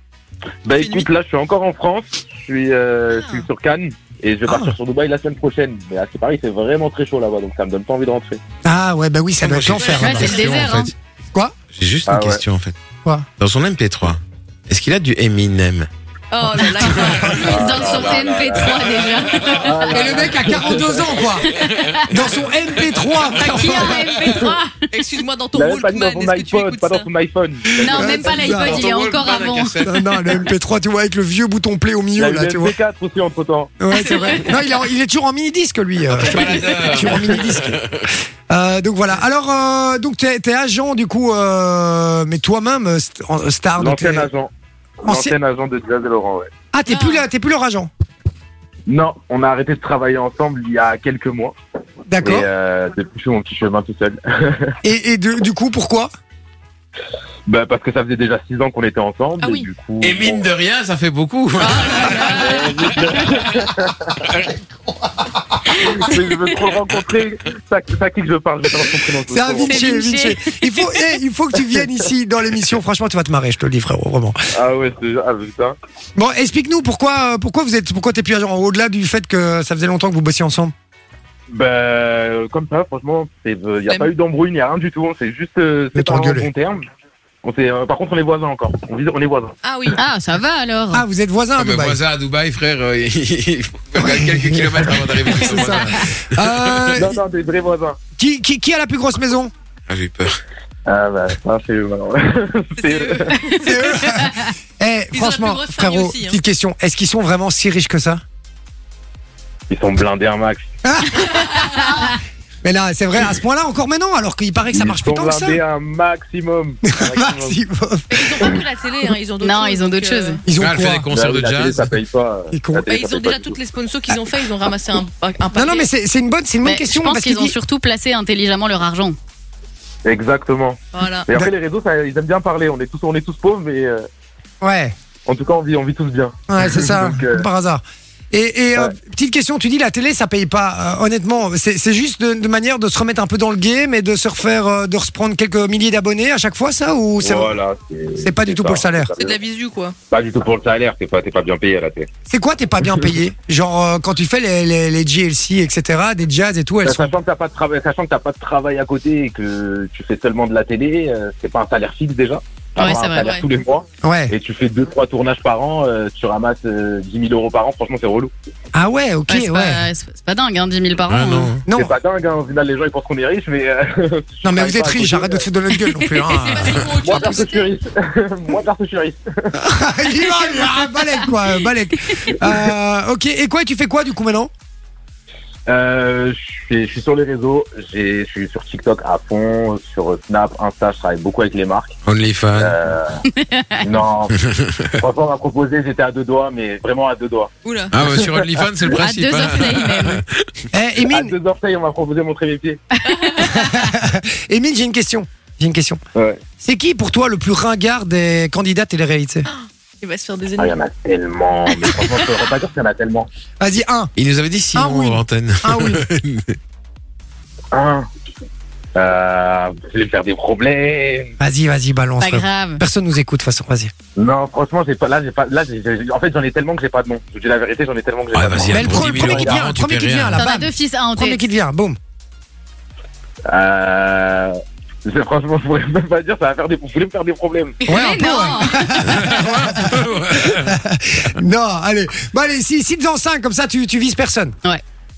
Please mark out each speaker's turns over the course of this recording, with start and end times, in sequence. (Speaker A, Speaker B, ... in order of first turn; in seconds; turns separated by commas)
Speaker A: 0.7-8.4, Speaker B: 0.8-1.1, Speaker B: 3.1-3.5, Speaker C: 4.5-4.8, Speaker C: 8.6-10.8, Speaker D: 9.4-10.9, Speaker B: 9.8-10.6, Speaker E: 9.9-10.9, Speaker D: 11.7-12.8, Speaker A: 12.1-12.4, Speaker D: 13.4-15.9, Speaker B: 16.3-17.9, Speaker C: 16.8-17.5, Speaker A: 17.4-21.3, Speaker E: 17.5-20.1, Speaker C: 19.9-21.6, Speaker E: 21.5-22.3, Speaker C: 22.1-24.2, Speaker D: 22.9-23.2, Speaker E: 23.3-24.9, Speaker B: 24.9-27.1, Speaker A: 25.5-28.9, Speaker E: 27.7-29.8, Speaker C: 27.8-28.9, Speaker D: 28.5-30.4, Speaker C: 29.8-32.8, Speaker A: 32.2-33.8, Speaker C: 33.8-44.3, Speaker E: 33.9-34.6, Speaker D: 36.1-38.1, Speaker A: 43.8-44.5, Speaker A: 45.0-46.5, Speaker C: 45.0-45.4, Speaker C: 46.7-47.9, Speaker B: 46.9-47.3, Speaker A: 48.9-51.6, Speaker C: 52.1-52.5, Speaker A: 52.2-54.7, Speaker C: 54.8-56.1, Speaker A: 57.5-60.5, Speaker B: 59.4-59.7, Speaker D: 60.0-63.2, Speaker B: 61.6-62.7, Speaker C: 62.1-62.6, Speaker A: 62.3-64.3, Speaker C: 64.3-65.9, Speaker A: 65.8-70.1, Speaker C: 69.3-74.4, Speaker E: 69.7-70.8, Speaker A: 74.5-75.8, Speaker C: 76.2-80.7, Speaker A: 81.5-86.8, Speaker C: 86.0-86.5, Speaker A: 87.4-89.6, Speaker B: 89.6-90.0, Speaker E: 89.9-91.0, Speaker C: 90.9-92.0, Speaker D: 91.6-96.9, Speaker C: 94.0-94.7, Speaker C: 95.3-97.2, Speaker A: 97.0-98.0, Speaker C: 98.2-99.5, Speaker D: 99.9-100.4, Speaker A: 100.9-103.3, Speaker B: 102.8-103.7, Speaker C: 103.6-108.2, Speaker E: 103.7-104.5, Speaker B: 105.1-106.4, Speaker A: 109.7-110.7, Speaker C: 110.8-115.6, Speaker E: 111.6-112.2, Speaker A: 114.7-117.6, Speaker C: 116.9-118.6, Speaker B: 118.1-120.4, Speaker E: 119.4-120.4, Speaker C: 120.5-121.1, Speaker D: 120.6-122.0, Speaker A: 121.1-123.6, Speaker C: 122.5-122.9, Speaker B: 122.9-125.9, Speaker C: 125.5-127.6, Speaker E: 126.6-129.2, Speaker A: 130.1-134.1, Speaker B: 130.9-131.3, Speaker C: 134.6-134.9, Speaker A: 135.3-137.5, Speaker C: 136.5-147.6, Speaker A: 147.2-149.4, Speaker C: 148.2-149.1, Speaker B: 149.2-150.0, Speaker A: 150.1-152.1, Speaker C: 152.3-157.1, Speaker A: 156.8-168.3, Speaker E: 162.8-163.3, Speaker B: 163.2-163.4, Speaker C: 164.0-164.3, Speaker C: 168.7-169.8, Speaker E: 169.3-171.6, Speaker D: 171.1-171.6, Speaker C: 171.7-171.9, Speaker A: 171.7-175.5, Speaker C: 174.4-177.3, Speaker E: 175.7-176.8, Speaker B: 176.3-177.7, Speaker A: 177.0-179.5, Speaker C: 179.5-184.5, Speaker E: 180.2-182.1, Speaker A: 185.7-192.0, Speaker D: 192.1-192.8, Speaker A: 192.6-193.2, Speaker E: 193.3-194.0, Speaker A: 193.8-194.4, Speaker A: 194.9-197.5, Speaker B: 197.6-198.0, Speaker D: 197.9-200.6, Speaker A: 198.1-198.6, Speaker E: 199.0-200.2, Speaker C: 200.7-201.3, Speaker A: 201.1-202.8, Speaker B: 203.0-203.5, Speaker E: 203.1-203.9, Speaker C: 203.4-206.0, Speaker A: 206.2-206.4, Speaker C: 206.6-209.5, Speaker B: 209.5-210.8, Speaker A: 210.6-213.3, Speaker C: 213.6-214.1, Speaker D: 214.2-216.6, Speaker C: 214.8-216.1, Speaker A: 217.7-218.1, Speaker A: 218.9-221.3, Speaker C: 221.4-223.9, Speaker E: 222.2-222.8, Speaker A: 224.2-229.7, Speaker D: 228.3-230.5, Speaker C: 228.7-232.0, Speaker E: 230.3-231.5, Speaker A: 233.5-237.8, Speaker C: 237.9-244.6, Speaker E: 237.9-239.1, Speaker D: 239.0-240.8